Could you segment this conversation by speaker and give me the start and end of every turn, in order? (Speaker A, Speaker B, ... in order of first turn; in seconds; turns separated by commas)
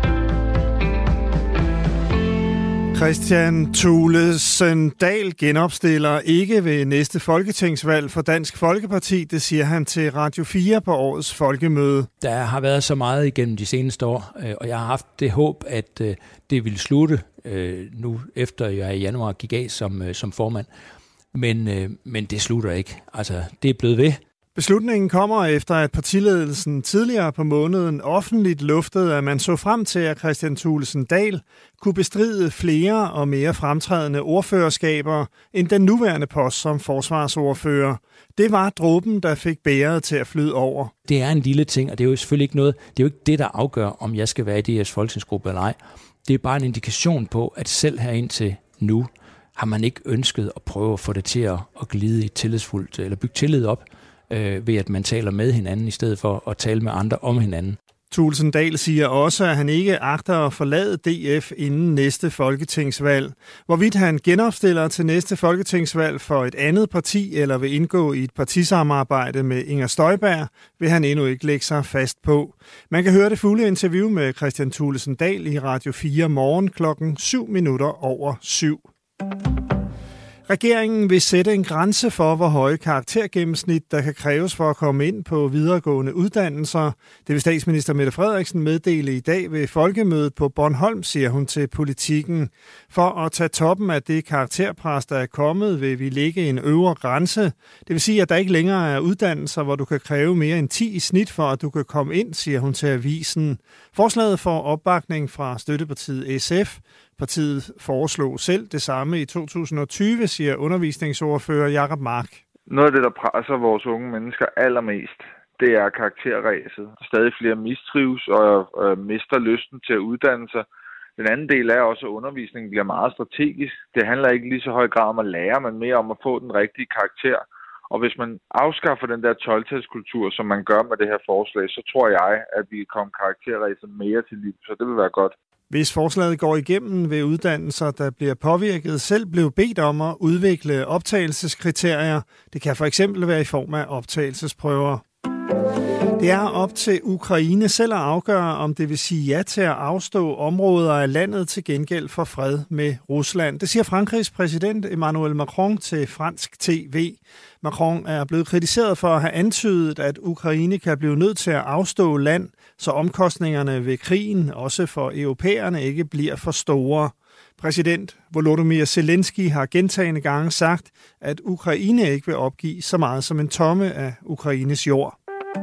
Speaker A: 2.9-12.1, Speaker B: 12.2-20.7, Speaker B: 21.3-24.2, Speaker A: 24.5-40.9, Speaker B: 41.0-57.8, Speaker A: 58.1-78.8, Speaker A: 80.5-112.4, Speaker C: 112.7-120.6, Speaker C: 121.2-135.3, Speaker A: 135.7-145.0, Speaker A: 146.2-175.2